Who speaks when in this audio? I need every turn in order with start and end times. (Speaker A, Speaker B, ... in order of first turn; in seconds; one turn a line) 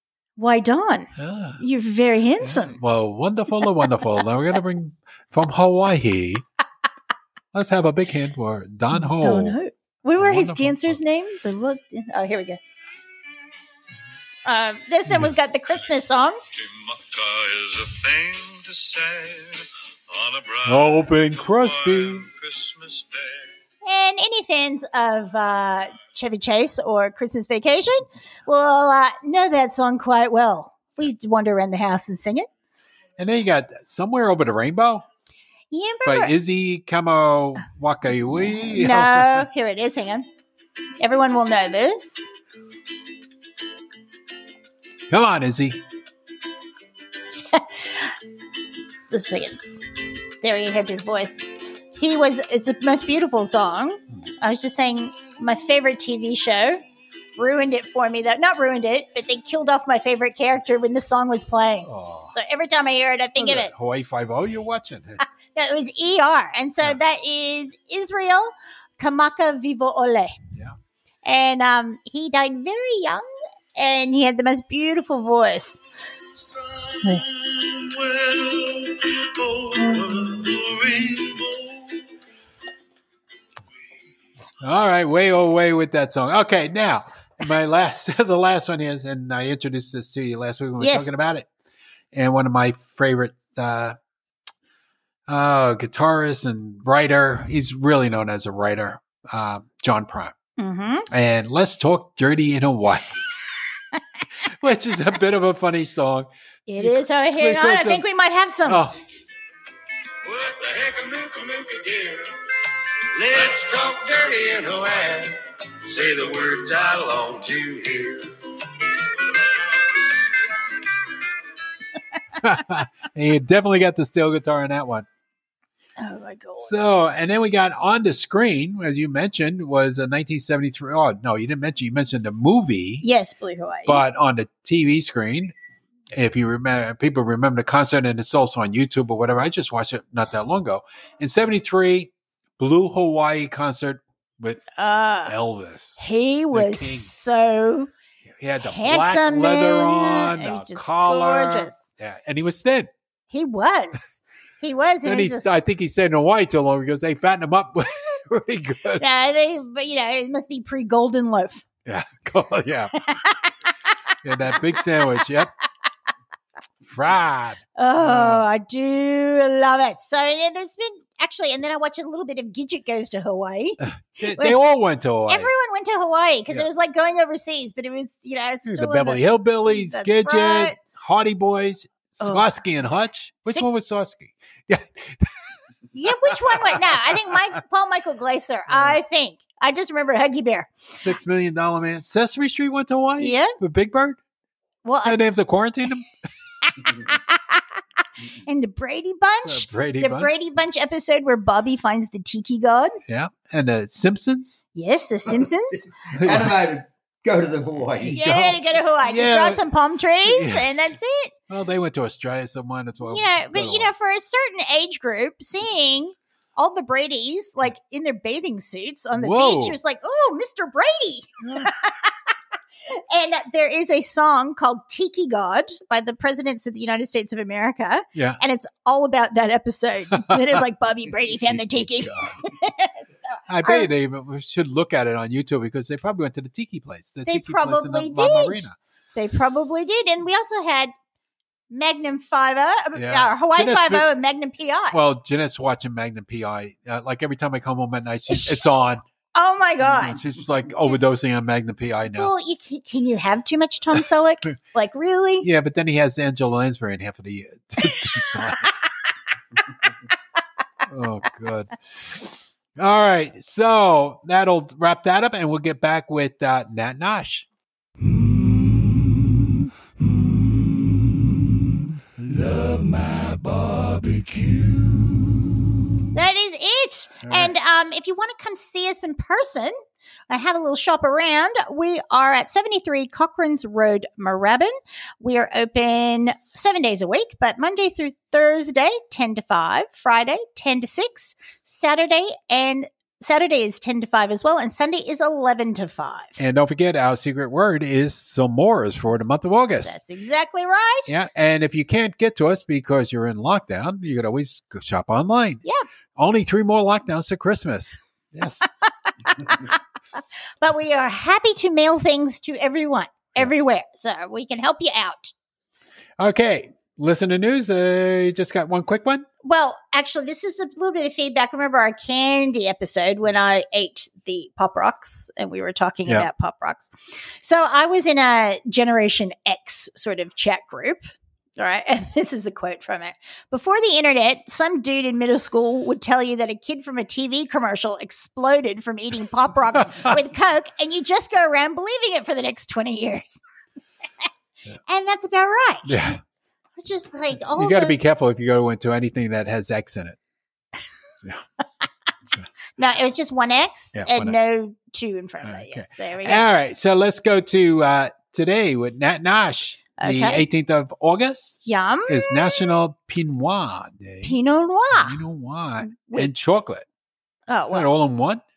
Speaker A: 0.4-2.8
Speaker B: 1.2-1.6
Speaker B: 2.4-6.4
Speaker B: 7.5-9.6
Speaker A: 8.9-12.6
Speaker B: 10.2-11.0
Speaker A: 14.4-16.4
Speaker C: 16.5-23.5
Speaker B: 20.6-22.3
Speaker A: 23.8-32.5
Speaker B: 33.2-35.0
Speaker A: 35.7-36.3
Speaker B: 36.0-39.5
Speaker A: 38.5-40.3
Speaker A: 41.0-42.3
Speaker B: 45.1-45.8
Speaker A: 47.5-48.1
Speaker A: 49.1-49.6
Speaker A: 50.4-56.8
Speaker A: 57.4-63.7
Speaker B: 61.9-62.4
Speaker B: 63.4-65.2
Speaker A: 65.5-70.4
Speaker A: 71.2-75.8
Speaker C: 76.4-82.0
Speaker B: 84.6-91.5
Speaker A: 90.8-91.1
Speaker B: 92.1-94.0
Speaker B: 95.3-100.3
Speaker A: 100.6-101.1
Speaker B: 101.1-103.2
Speaker B: 104.4-108.0
Speaker A: 106.7-108.9
Speaker B: 108.7-108.9
Speaker C: 110.2-112.3
Speaker C: 113.1-120.2
Speaker B: 122.4-125.0
Speaker A: 126.0-126.8
Speaker B: 126.6-133.0
Speaker A: 133.0-134.0
Speaker B: 133.8-135.5
Speaker B: 136.1-144.6
Speaker A: 144.8-145.3
Speaker B: 145.2-146.0
Speaker A: 146.0-147.9
Speaker B: 146.5-147.1
Speaker B: 148.2-152.9
Speaker A: 148.6-151.8
Speaker A: 153.3-155.4
Speaker B: 155.0-159.0
Speaker A: 159.0-161.7
Speaker B: 161.8-162.9
Speaker A: 163.0-163.4
Speaker B: 164.2-165.5
Speaker B: 166.8-168.4
Speaker A: 167.8-174.6
Speaker B: 173.8-175.5
Speaker A: 175.3-180.8
Speaker B: 178.7-187.5
Speaker A: 182.2-182.5
Speaker A: 185.9-191.0
Speaker B: 188.7-189.0
Speaker B: 190.9-194.2
Speaker A: 193.2-193.5
Speaker A: 194.8-195.3
Speaker B: 195.0-196.1
Speaker A: 196.6-197.6
Speaker A: 198.3-203.0
Speaker B: 199.4-200.3
Speaker B: 203.1-204.6
Speaker A: 204.7-206.4
Speaker D: 206.1-208.2
Speaker B: 206.1-206.6
Speaker B: 208.0-209.7
Speaker A: 208.1-211.3
Speaker B: 210.2-210.9
Speaker B: 211.5-213.9
Speaker A: 213.0-222.1
Speaker B: 219.1-219.8
Speaker B: 221.4-221.7
Speaker A: 222.9-233.9
Speaker B: 228.1-228.4
Speaker B: 230.1-230.6
Speaker B: 232.0-232.3
Speaker B: 233.5-238.8
Speaker A: 237.2-240.9
Speaker A: 241.7-245.0
Speaker B: 242.9-244.1
Speaker B: 244.9-249.0
Speaker A: 248.3-248.7
Speaker A: 249.3-251.0
Speaker B: 249.8-252.3
Speaker A: 252.2-255.5
Speaker B: 255.4-258.7
Speaker A: 257.8-258.5
Speaker B: 260.8-267.5
Speaker C: 272.8-274.4
Speaker A: 276.1-279.8
Speaker B: 277.2-277.5
Speaker A: 280.3-296.4
Speaker B: 296.4-300.0
Speaker A: 299.8-301.1
Speaker B: 301.1-305.6
Speaker B: 306.1-308.7
Speaker A: 309.3-309.7
Speaker A: 310.5-315.3
Speaker B: 316.2-319.2
Speaker A: 319.4-331.1
Speaker A: 331.6-343.4
Speaker A: 344.9-346.2
Speaker B: 345.9-346.2
Speaker A: 346.8-348.0
Speaker B: 347.5-350.2
Speaker A: 352.8-356.4
Speaker B: 353.9-354.4
Speaker B: 355.4-364.4
Speaker A: 360.0-360.4
Speaker A: 361.6-362.6
Speaker A: 364.2-365.2
Speaker B: 364.9-366.8
Speaker A: 365.8-366.3
Speaker A: 367.5-367.9
Speaker B: 367.7-368.4